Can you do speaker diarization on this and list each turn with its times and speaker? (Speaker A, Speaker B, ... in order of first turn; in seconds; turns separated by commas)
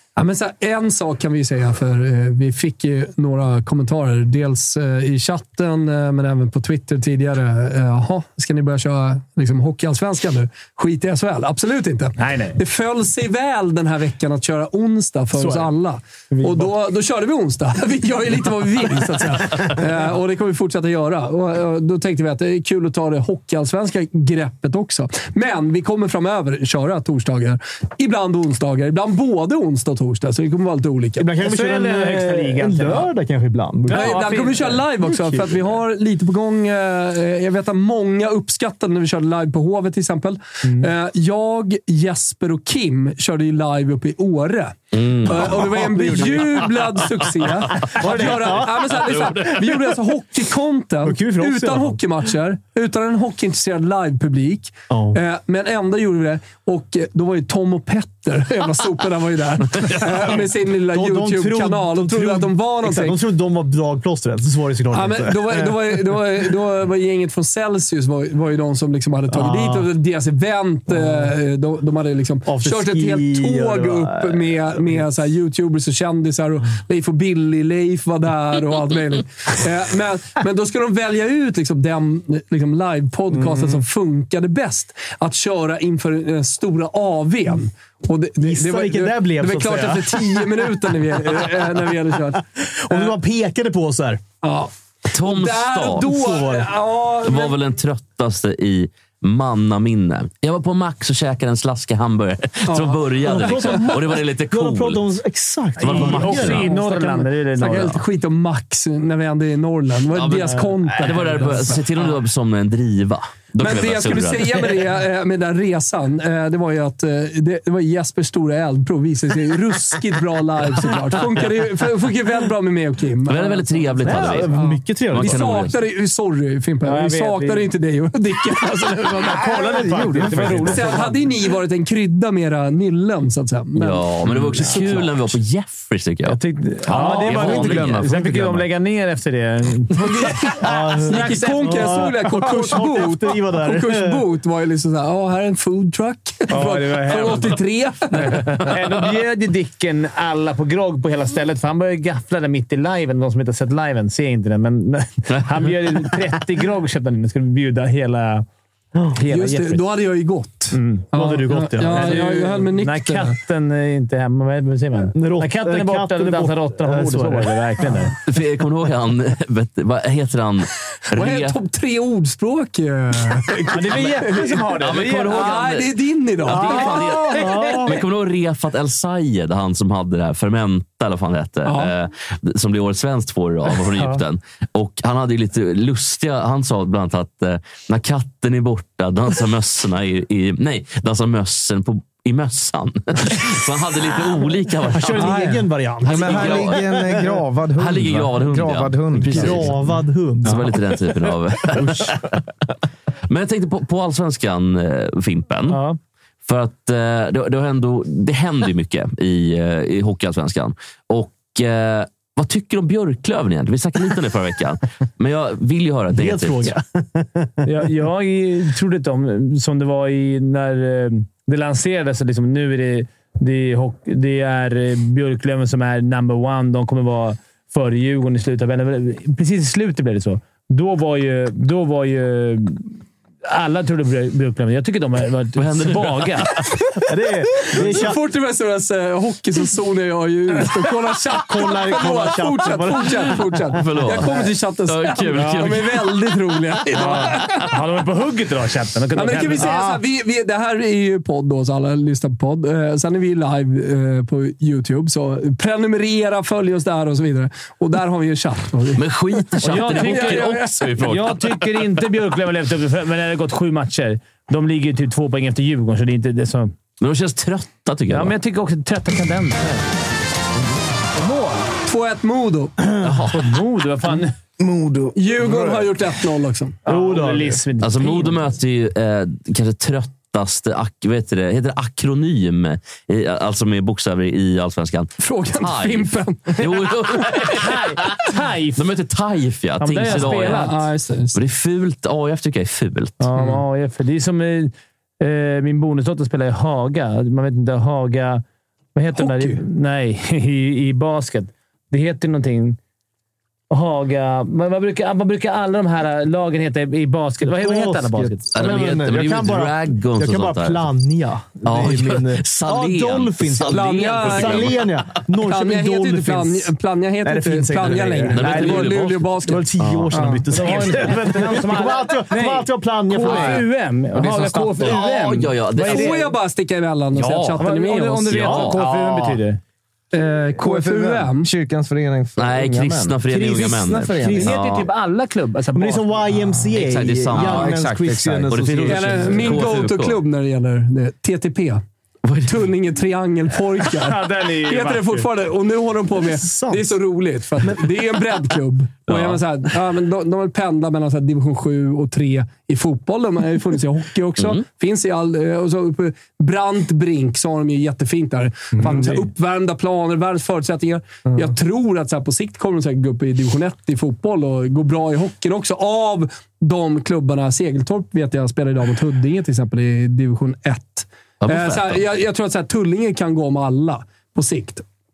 Speaker A: 0.2-31.2, Speaker B: 12.2-12.6, Speaker C: 15.4-15.7, Speaker B: 16.3-16.7, Speaker C: 31.2-35.7, Speaker B: 31.4-33.1, Speaker B: 33.9-34.8, Speaker A: 33.9-63.2, Speaker B: 40.6-40.9, Speaker D: 44.9-45.8, Speaker C: 45.4-46.6, Speaker D: 47.8-48.3, Speaker C: 47.9-49.0, Speaker D: 48.9-49.7, Speaker C: 51.0-52.0, Speaker C: 54.9-55.2, Speaker C: 60.9-66.1, Speaker A: 64.9-93.1, Speaker C: 69.3-69.9, Speaker C: 70.9-71.3, Speaker C: 72.5-74.9, Speaker C: 83.3-83.8, Speaker C: 88.4-90.5, Speaker C: 91.3-91.8, Speaker C: 92.6-94.2, Speaker A: 94.4-97.6, Speaker D: 95.1-96.1, Speaker C: 96.0-96.7, Speaker D: 97.2-105.1, Speaker A: 102.7-103.8, Speaker C: 103.2-106.7, Speaker D: 105.8-106.7, Speaker B: 105.8-108.0, Speaker A: 106.7-111.8, Speaker D: 110.1-114.7, Speaker A: 113.6-129.5, Speaker D: 123.3-124.5, Speaker C: 124.0-125.7, Speaker D: 125.1-125.8, Speaker B: 126.8-127.7, Speaker C: 129.3-131.0, Speaker B: 129.4-131.2, Speaker E: 129.7-130.7, Speaker A: 130.6-135.2, Speaker D: 133.8-136.4, Speaker B: 136.3-142.1, Speaker A: 136.9-137.6, Speaker D: 136.9-138.2, Speaker E: 136.9-138.6, Speaker A: 139.9-148.6, Speaker C: 140.6-144.2, Speaker B: 146.5-147.6, Speaker B: 148.1-158.5, Speaker D: 148.8-149.1, Speaker B: 159.1-159.9, Speaker A: 159.3-163.3, Speaker B: 160.7-161.1, Speaker C: 161.2-162.5, Speaker B: 161.8-168.2, Speaker C: 165.1-168.0, Speaker D: 168.3-171.6, Speaker A: 171.1-174.7, Speaker B: 173.7-175.7, Speaker D: 173.9-195.4, Speaker A: 175.3-177.2, Speaker C: 176.5-178.0, Speaker A: 181.7-181.9, Speaker C: 194.9-197.4, Speaker A: 195.2-195.6, Speaker D: 196.0-196.8, Speaker E: 196.1-199.8, Speaker D: 197.8-199.8, Speaker C: 199.3-200.8, Speaker D: 200.4-202.4, Speaker D: 203.3-205.8, Speaker B: 205.7-206.0, Speaker D: 206.5-216.8, Speaker C: 216.1-217.7, Speaker B: 217.7-232.9, Speaker B: 233.4-237.0, Speaker D: 235.6-236.7, Speaker C: 237.1-238.2, Speaker A: 237.8-247.6, Speaker C: 241.4-243.9, Speaker D: 243.8-246.2, Speaker B: 245.3-245.7, Speaker B: 247.0-249.9, Speaker A: 249.1-260.8, Speaker C: 249.7-250.0, Speaker D: 259.0-261.7, Speaker B: 259.6-266.7, Speaker D: 267.0-268.4, Speaker B: 268.1-269.8, Speaker B: 271.2-271.7, Speaker A: 271.8-272.7, Speaker D: 273.0-273.4, Speaker B: 273.3-274.4, Speaker E: 274.6-275.2, Speaker A: 275.1-276.8, Speaker B: 276.9-278.4, Speaker C: 276.9-277.6, Speaker D: 277.8-290.7, Speaker A: 285.2-287.3, Speaker B: 287.4-288.9, Speaker B: 289.8-290.9, Speaker A: 290.1-291.4, Speaker D: 291.3-293.2, Speaker B: 293.2-298.4, Speaker B: 298.9-302.8, Speaker A: 299.1-299.6, Speaker B: 303.7-308.5, Speaker C: 307.4-316.7, Speaker D: 308.5-310.8, Speaker D: 311.6-314.9, Speaker A: 313.7-314.8, Speaker A: 315.4-320.3, Speaker C: 317.2-318.8, Speaker D: 318.4-319.4, Speaker B: 318.5-318.8, Speaker C: 319.4-323.7, Speaker E: 319.8-320.2, Speaker B: 320.5-326.3, Speaker E: 323.2-323.6, Speaker E: 324.1-324.9, Speaker D: 324.8-326.2, Speaker A: 325.8-328.7, Speaker D: 327.1-327.6, Speaker B: 327.6-329.6, Speaker D: 328.3-329.2, Speaker A: 330.1-331.5, Speaker E: 330.6-334.5, Speaker D: 332.4-334.9, Speaker B: 334.2-336.2, Speaker C: 335.7-339.7, Speaker D: 336.7-337.8, Speaker E: 337.3-339.0, Speaker D: 338.5-340.2, Speaker A: 338.9-341.8, Speaker A: 342.4-374.8, Speaker B: 343.9-345.3, Speaker C: 346.2-346.9, Speaker D: 349.1-349.4, Speaker D: 354.4-354.6, Speaker B: 358.8-359.2, Speaker D: 371.4-372.0